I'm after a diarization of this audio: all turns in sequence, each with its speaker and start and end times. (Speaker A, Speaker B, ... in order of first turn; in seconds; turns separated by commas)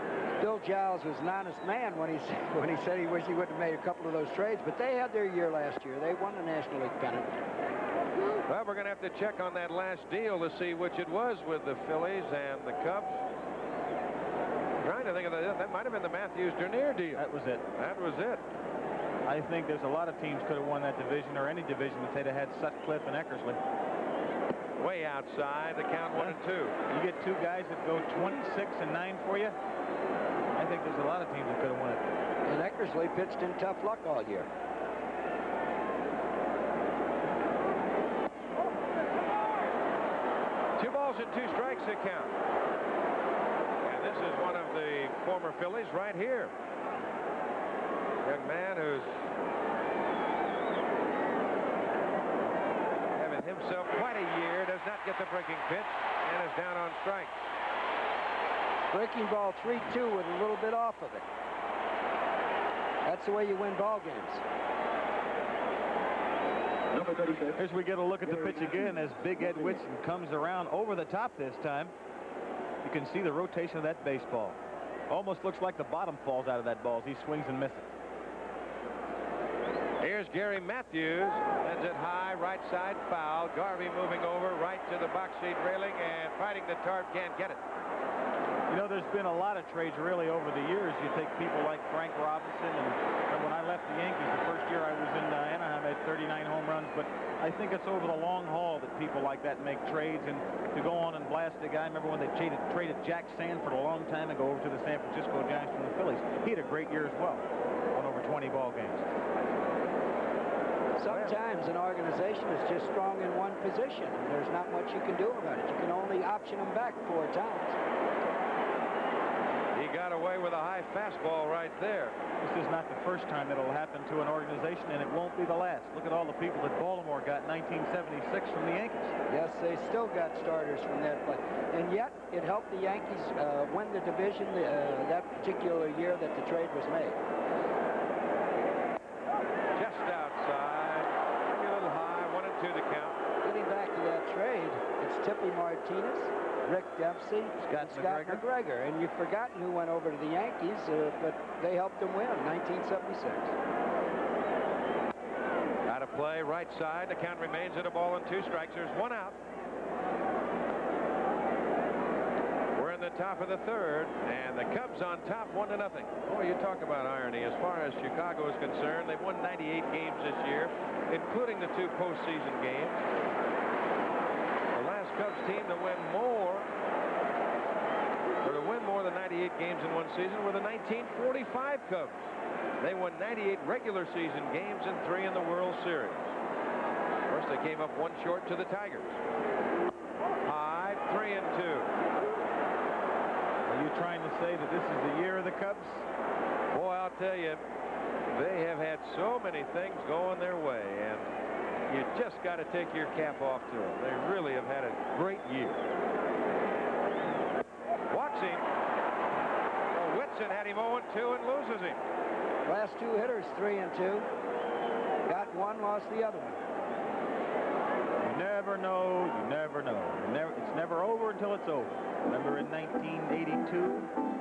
Speaker A: 0.4-7.4, Speaker B: 8.4-13.2, Speaker B: 14.8-17.2, Speaker C: 17.1-17.6, Speaker B: 17.7-18.4, Speaker C: 19.2-23.6, Speaker B: 24.8-26.8, Speaker C: 26.9-29.6, Speaker C: 30.6-32.0, Speaker A: 32.4-34.5, Speaker B: 40.8-42.3, Speaker B: 43.8-46.5, Speaker B: 48.2-49.1, Speaker B: 53.1-57.4, Speaker A: 58.9-61.3, Speaker A: 63.0-64.4, Speaker D: 66.9-67.7, Speaker C: 67.6-71.9, Speaker D: 68.2-69.8, Speaker C: 72.8-74.6, Speaker C: 75.1-77.9, Speaker B: 80.0-87.6, Speaker C: 88.7-109.1, Speaker A: 111.0-117.8, Speaker B: 111.0-111.3, Speaker B: 119.7-122.2, Speaker C: 122.4-129.1, Speaker A: 129.3-137.2, Speaker B: 139.7-143.2, Speaker A: 143.4-153.5, Speaker C: 147.6-148.4, Speaker B: 155.8-159.4, Speaker B: 162.7-173.0, Speaker B: 174.7-176.7, Speaker B: 178.4-182.2, Speaker B: 182.8-186.3, Speaker B: 187.3-189.2, Speaker B: 190.4-191.9, Speaker C: 193.7-196.1, Speaker B: 196.7-197.6, Speaker B: 198.3-201.3, Speaker B: 201.9-205.8, Speaker B: 208.1-208.6, Speaker B: 209.9-212.0, Speaker A: 212.6-214.3, Speaker A: 215.2-216.6, Speaker C: 218.2-224.1